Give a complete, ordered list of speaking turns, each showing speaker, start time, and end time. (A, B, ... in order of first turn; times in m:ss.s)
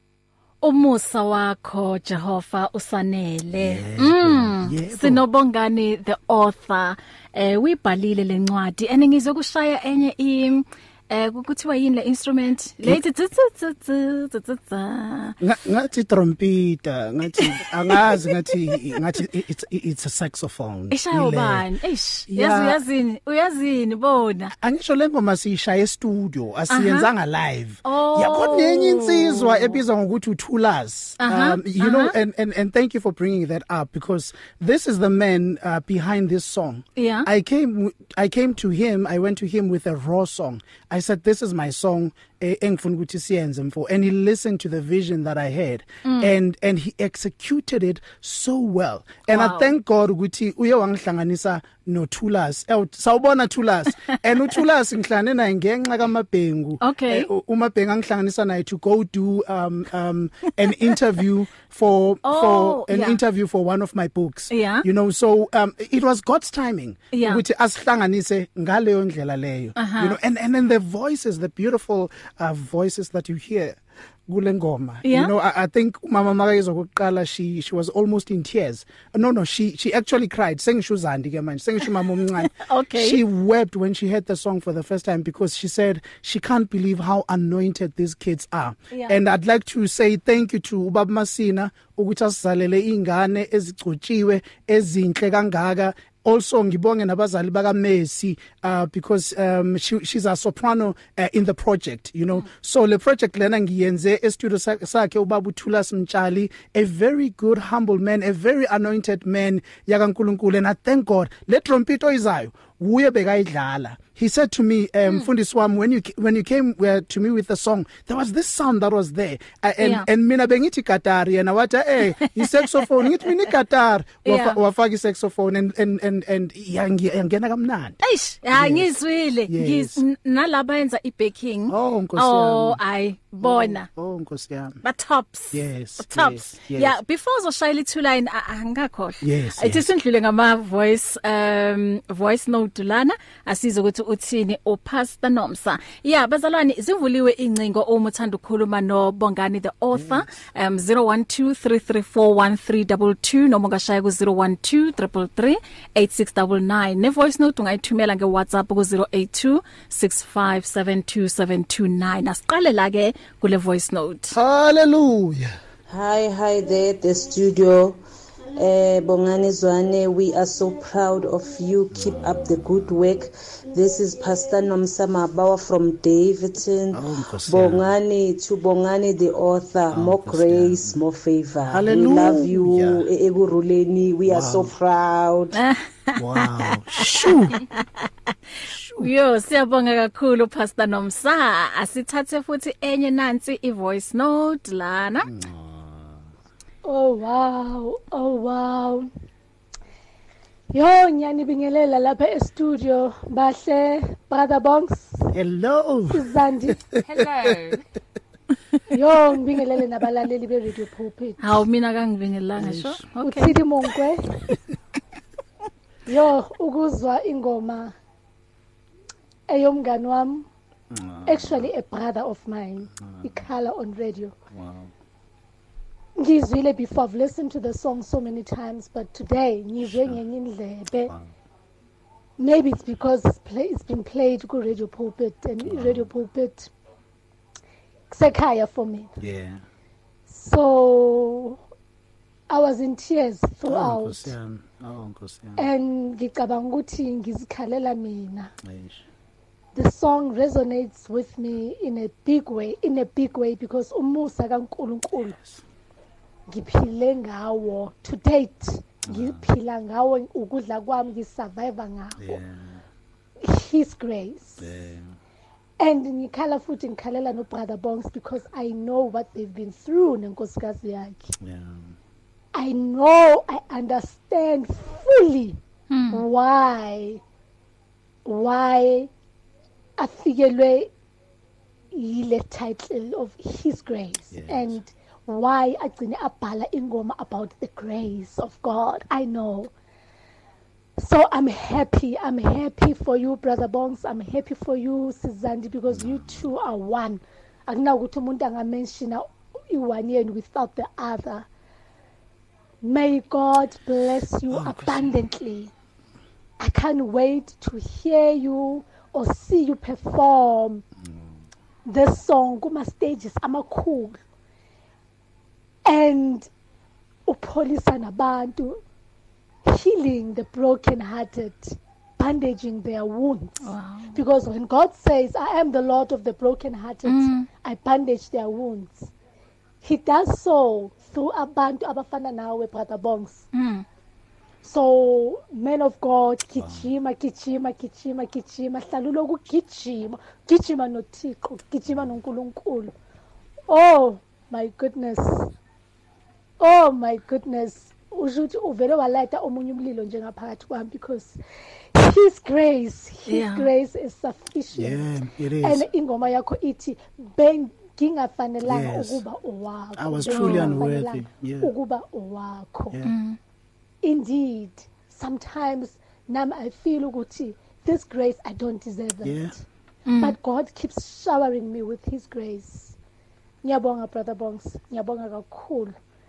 0:00.6-0:15.4 A
0:03.6-0:05.2 B
0:15.4-0:21.6 B
0:17.4-0:18.3 A
0:20.9-0:24.5 A
0:22.3-0:22.8 B
0:24.6-2:08.0 B
0:26.7-0:27.1 A
0:27.8-0:29.8 A
0:31.2-0:32.1 A
0:37.0-0:37.3 A
0:46.0-0:46.3 A
0:49.3-0:49.7 A
0:56.8-0:57.3 A
1:02.2-1:03.2 A
1:04.5-1:04.8 A
1:07.1-1:07.4 A
1:09.8-1:10.2 A
1:15.0-1:15.3 A
1:22.6-1:23.2 A
1:28.9-1:29.2 A
1:59.8-2:00.0 A
2:02.2-2:02.9 A
2:04.2-2:04.6 A
2:08.0-2:13.9 A
2:08.5-2:09.0 B
2:09.5-2:10.0 B
2:11.7-2:12.8 B
2:13.4-2:14.8 B
2:14.8-2:44.4 A
2:15.5-2:17.0 B
2:19.2-2:19.9 B
2:29.9-2:30.3 B
2:44.3-2:45.5 B
2:45.9-2:48.0 C
2:48.6-3:05.6 C
2:56.9-2:57.9 B
2:59.9-3:00.9 B
3:01.7-3:03.0 B
3:04.2-3:04.7 B
3:05.5-3:07.8 A
3:06.2-3:07.6 B
3:08.6-3:09.1 B
3:09.0-3:15.3 A
3:15.2-3:16.2 B
3:16.8-3:19.1 D
3:20.7-3:25.3 D
3:25.3-3:26.2 B
3:26.1-3:26.8 D
3:27.0-3:27.8 B
3:28.9-3:31.6 D
3:31.4-3:33.6 A
3:32.6-3:33.0 B
3:33.2-3:34.4 D
3:36.1-3:37.9 D
3:39.5-3:40.5 D
3:40.9-3:41.7 B
3:41.2-3:44.3 D
3:43.0-3:43.4 B
3:44.5-3:44.9 B
3:46.2-3:51.1 D
3:49.9-3:50.2 B
3:52.4-3:56.7 D
3:55.6-3:56.1 B
3:58.1-3:59.1 D
3:59.2-3:59.6 B
4:00.3-4:01.6 D
4:02.5-4:04.3 D
4:03.6-4:05.6 B
4:05.6-4:08.5 D
4:08.6-4:09.0 B
4:09.7-4:15.4 D
4:15.3-4:15.6 B
4:16.5-4:22.4 D
4:19.1-4:19.5 B
4:22.2-4:22.8 B
4:23.4-4:24.7 D
4:24.6-4:25.1 B
4:25.8-4:31.3 D
4:31.4-4:31.9 B
4:32.5-4:35.6 D
4:35.9-4:36.2 A
4:36.1-4:37.2 D
4:38.2-4:39.1 D
4:40.0-4:40.9 D
4:41.9-4:49.7 D
4:44.3-4:44.7 B
4:51.0-5:01.4 D
4:55.9-4:56.4 B
5:02.8-5:05.7 D
5:04.5-5:05.1 B
5:06.6-5:10.8 D
5:11.9-5:14.2 D
5:15.8-5:16.5 D
5:17.3-5:18.8 D
5:19.6-5:29.1 D
5:23.6-5:24.2 A
5:27.0-5:27.5 A
5:29.8-5:33.5 D
5:33.5-5:33.8 A
5:34.6-5:42.9 D
5:36.6-5:36.8 B
5:43.7-5:45.5 D
5:46.6-5:51.4 D
5:51.9-5:55.0 D
5:53.3-5:53.7 A
5:54.7-5:55.9 B
5:55.6-6:03.0 D
5:58.6-5:59.2 B
6:00.0-6:01.7 B
6:00.3-6:00.7 A
6:03.0-6:03.4 A
6:04.0-6:09.6 D
6:09.2-6:09.5 B
6:10.1-6:10.4 A
6:10.2-6:13.0 D
6:13.6-6:15.9 D